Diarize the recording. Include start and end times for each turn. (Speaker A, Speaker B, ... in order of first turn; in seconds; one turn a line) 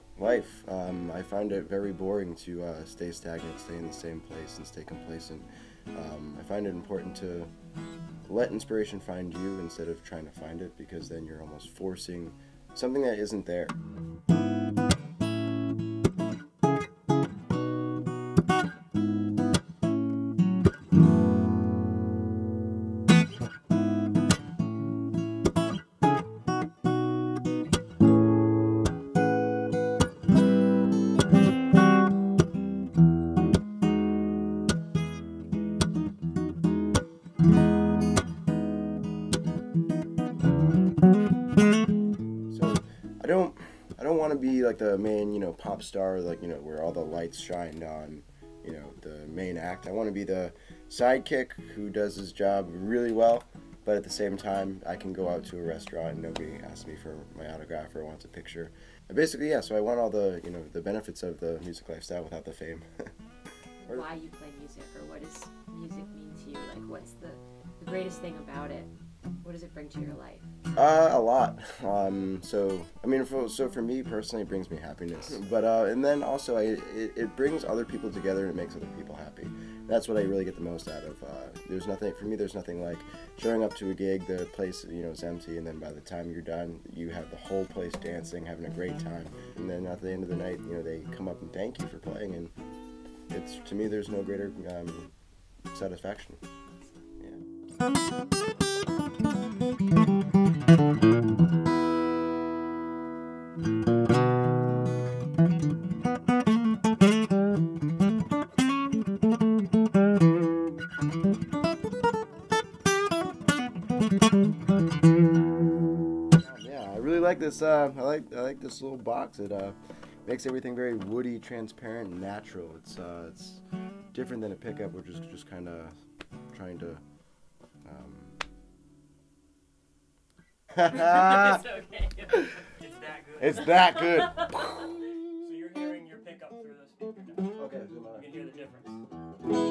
Speaker A: 0.2-7.5
Speaker A: 8.2-13.7
Speaker A: 42.5-63.1
Speaker B: 63.8-68.9
Speaker A: 63.9-64.1
Speaker B: 69.4-70.5
Speaker A: 70.7-92.5
Speaker A: 93.3-95.1
Speaker A: 95.7-96.4
Speaker A: 116.3-125.9
Speaker A: 126.5-127.0
Speaker A: 127.8-128.3
Speaker A: 130.7-131.6
Speaker B: 130.8-132.6
Speaker C: 132.7-133.9
Speaker A: 133.4-134.9
Speaker B: 134.2-134.7
Speaker C: 135.4-137.5
Speaker A: 137.6-138.3
Speaker C: 138.1-139.0